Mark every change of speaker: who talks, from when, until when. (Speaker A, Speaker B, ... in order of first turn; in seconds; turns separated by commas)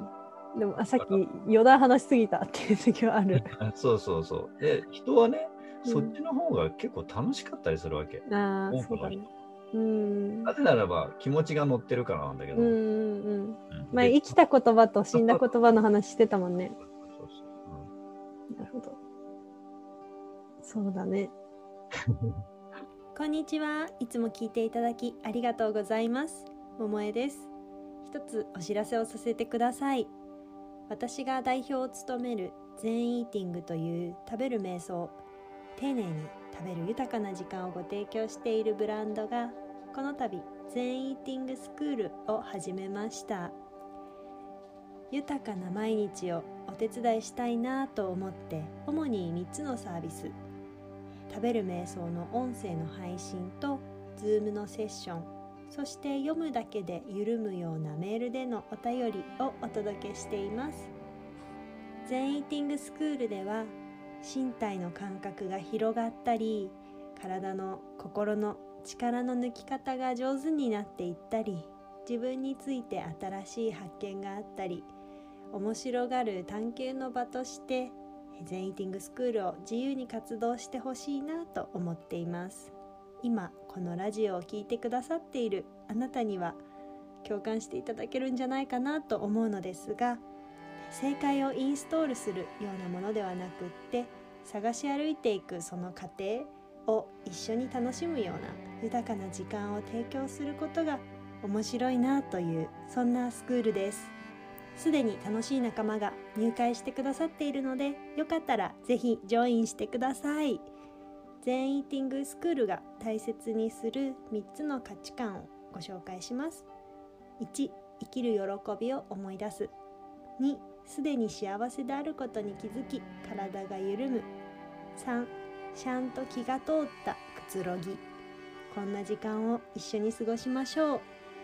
Speaker A: 0.6-3.5, Speaker B: 3.3-9.3, Speaker A: 5.8-6.2, Speaker A: 8.2-10.5, Speaker B: 10.5-12.8, Speaker A: 12.6-16.8, Speaker B: 13.7-14.4, Speaker B: 15.1-15.4, Speaker B: 16.8-17.9, Speaker A: 18.5-19.0, Speaker A: 20.6-21.3, Speaker C: 23.1-27.5, Speaker C: 28.0-30.1, Speaker C: 30.9-35.2, Speaker C: 35.8-43.6, Speaker C: 45.1-50.4, Speaker C: 51.3-60.9, Speaker C: 62.0-74.9, Speaker C: 75.5-86.6, Speaker C: 87.2-90.2, Speaker C: 90.9-104.1, Speaker C: 104.8-110.7, Speaker C: 111.4-116.7, Speaker C: 117.4-119.7, Speaker C: 120.4-124.3, Speaker C: 125.0-128.0, Speaker C: 128.7-131.1